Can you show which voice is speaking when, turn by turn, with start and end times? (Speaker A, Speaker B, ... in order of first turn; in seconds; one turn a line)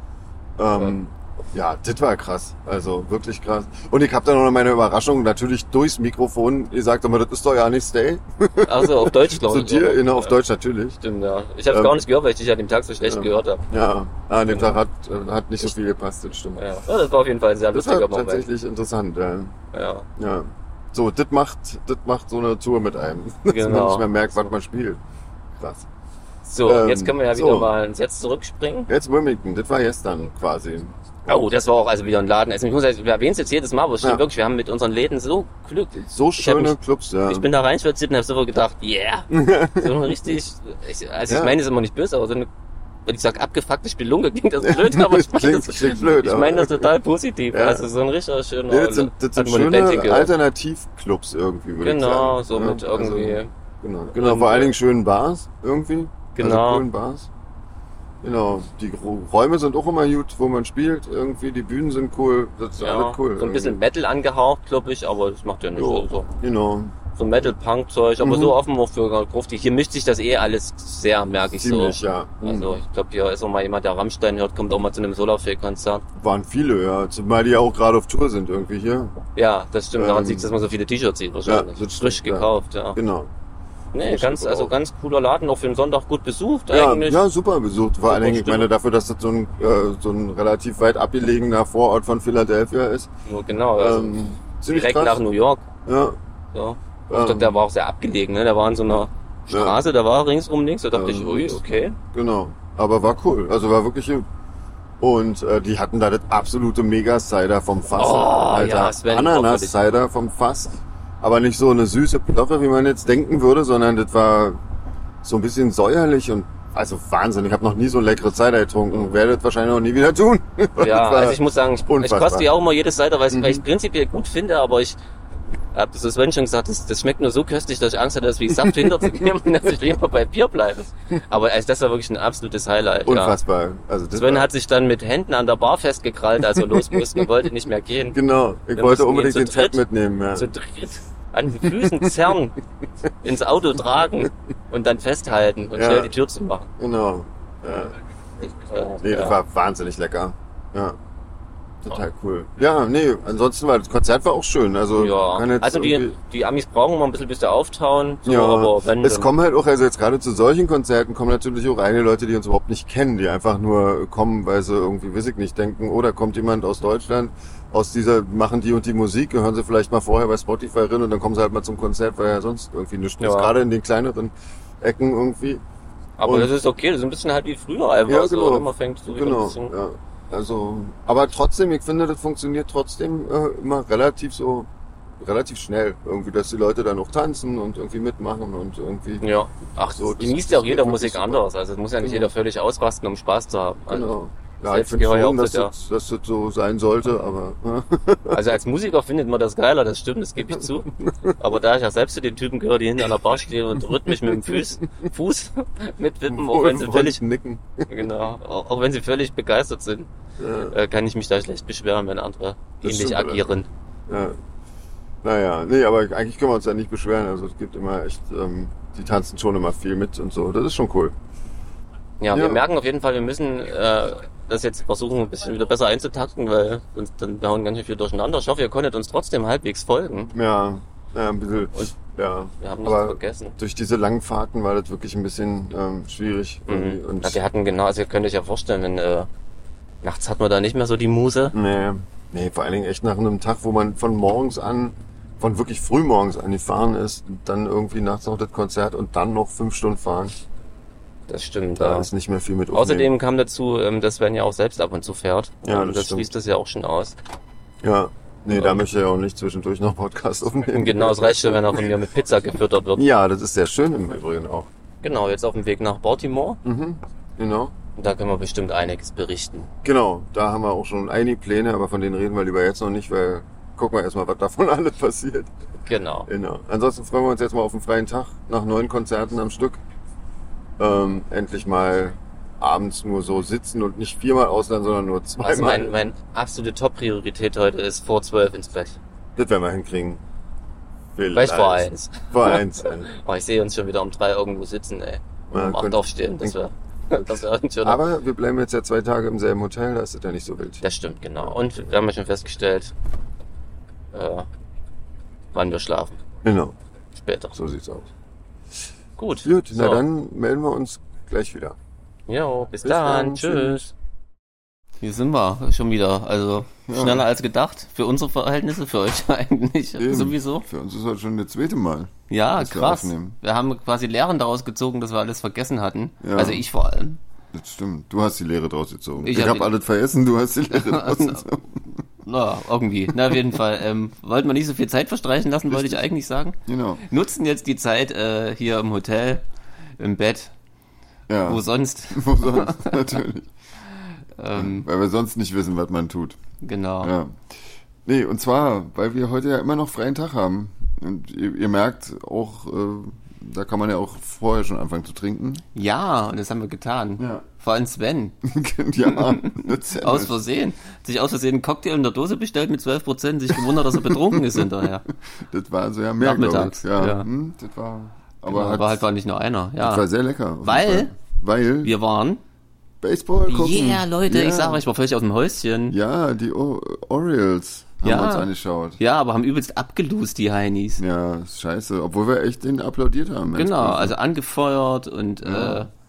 Speaker A: 0.6-11.0
Speaker B: 8.6-10.3
Speaker B: 11.0-13.6
Speaker A: 11.7-12.0
Speaker A: 13.0-16.6
Speaker B: 16.6-18.5
Speaker A: 17.7-19.5
Speaker B: 19.7-20.1
Speaker A: 20.1-25.0
Speaker B: 23.5-24.1
Speaker A: 25.6-25.9
Speaker B: 26.4-28.9
Speaker A: 26.6-27.7
Speaker A: 28.9-31.5
Speaker B: 31.3-42.5
Speaker A: 36.1-37.5
Speaker A: 39.3-40.1
Speaker A: 41.3-41.5
Speaker B: 43.0-50.3
Speaker A: 44.6-46.9
Speaker A: 47.5-47.9
Speaker A: 48.7-57.3
Speaker B: 51.8-53.5
Speaker B: 54.1-54.7
Speaker B: 56.3-56.9
Speaker A: 58.2-63.8
Speaker B: 62.8-66.3
Speaker A: 65.8-66.9
Speaker B: 67.1-76.0
Speaker A: 68.2-68.6
Speaker A: 71.6-72.8
Speaker A: 76.2-79.1
Speaker B: 79.3-83.0
Speaker A: 80.0-80.5
Speaker A: 81.5-83.3
Speaker B: 83.9-87.2
Speaker A: 84.0-84.7
Speaker A: 86.7-93.1
Speaker B: 88.0-88.7
Speaker B: 93.2-94.2
Speaker A: 93.8-95.2
Speaker B: 94.7-95.6
Speaker A: 95.8-96.2
Speaker B: 96.5-102.0
Speaker A: 97.1-97.6
Speaker A: 99.5-99.8
Speaker A: 100.9-104.2
Speaker A: 105.0-114.6
Speaker B: 108.0-109.8
Speaker A: 115.2-122.5
Speaker B: 120.8-125.0
Speaker A: 123.3-123.6
Speaker B: 125.7-133.4
Speaker A: 128.5-129.3
Speaker A: 133.1-134.5
Speaker B: 134.1-138.2
Speaker A: 136.5-137.3
Speaker A: 138.1-140.5
Speaker B: 138.8-139.8
Speaker B: 140.3-142.6
Speaker A: 141.6-142.1
Speaker B: 143.2-146.7
Speaker A: 145.8-146.1
Speaker A: 146.8-147.9
Speaker B: 148.6-149.4
Speaker A: 149.0-151.0
Speaker A: 151.8-156.1
Speaker B: 154.9-159.3
Speaker A: 158.2-175.6
Speaker B: 173.2-173.5
Speaker B: 176.2-179.7
Speaker A: 176.2-176.5
Speaker A: 178.1-184.7
Speaker A: 185.2-189.2
Speaker B: 189.2-194.1
Speaker A: 189.9-191.4
Speaker A: 192.0-192.3
Speaker A: 193.9-198.4
Speaker B: 194.7-195.7
Speaker B: 198.3-207.2
Speaker A: 204.1-204.6
Speaker A: 206.3-207.9
Speaker B: 207.9-210.1
Speaker A: 210.4-210.7
Speaker B: 210.7-213.7
Speaker A: 212.8-213.5
Speaker A: 214.1-214.4
Speaker A: 215.2-221.1
Speaker B: 222.2-230.3
Speaker A: 222.3-222.6
Speaker A: 230.3-237.4
Speaker B: 232.6-233.6
Speaker B: 236.7-239.3
Speaker B: 240.0-241.5
Speaker A: 241.5-250.3
Speaker B: 251.3-252.1
Speaker A: 251.8-253.1
Speaker B: 252.7-257.1
Speaker A: 255.6-256.3
Speaker A: 257.8-261.9
Speaker B: 258.5-258.8
Speaker B: 260.7-263.0
Speaker A: 262.9-264.7
Speaker B: 265.0-266.6
Speaker A: 266.6-267.7
Speaker B: 267.9-269.7
Speaker A: 269.8-275.5
Speaker B: 275.9-276.3
Speaker A: 276.3-279.8
Speaker A: 280.8-285.9
Speaker B: 285.4-289.0
Speaker A: 289.4-290.2
Speaker A: 291.1-293.1
Speaker B: 291.3-298.0
Speaker A: 295.5-296.6
Speaker A: 297.2-300.8
Speaker B: 300.8-302.9
Speaker A: 301.4-301.7
Speaker B: 304.1-304.5
Speaker B: 305.5-306.2
Speaker A: 306.4-306.7
Speaker B: 307.1-307.6
Speaker A: 307.5-308.1
Speaker B: 309.2-310.0
Speaker A: 309.4-311.8
Speaker B: 312.3-313.9
Speaker A: 312.8-313.9
Speaker B: 315.0-320.6
Speaker C: 316.9-317.2
Speaker C: 320.0-323.4
Speaker B: 322.3-327.2
Speaker C: 326.2-326.6
Speaker C: 327.5-331.9
Speaker B: 329.2-329.7
Speaker B: 330.7-331.5
Speaker B: 332.2-339.4
Speaker C: 335.7-336.0
Speaker C: 336.6-337.0
Speaker B: 340.0-340.5
Speaker C: 341.3-343.5
Speaker B: 341.4-343.2
Speaker B: 344.4-344.9
Speaker C: 344.5-346.4
Speaker B: 346.6-347.1
Speaker C: 347.0-355.6
Speaker B: 355.7-358.4
Speaker C: 357.2-357.4
Speaker C: 358.4-360.4
Speaker B: 359.0-365.0
Speaker C: 363.5-369.0
Speaker B: 366.2-367.3
Speaker B: 368.5-370.0
Speaker C: 369.8-371.9
Speaker B: 370.6-371.1
Speaker B: 371.8-372.4
Speaker C: 373.0-374.8
Speaker B: 373.5-375.9
Speaker C: 375.9-379.0
Speaker B: 378.0-381.0
Speaker C: 381.0-384.1
Speaker B: 383.5-385.9
Speaker C: 385.4-385.9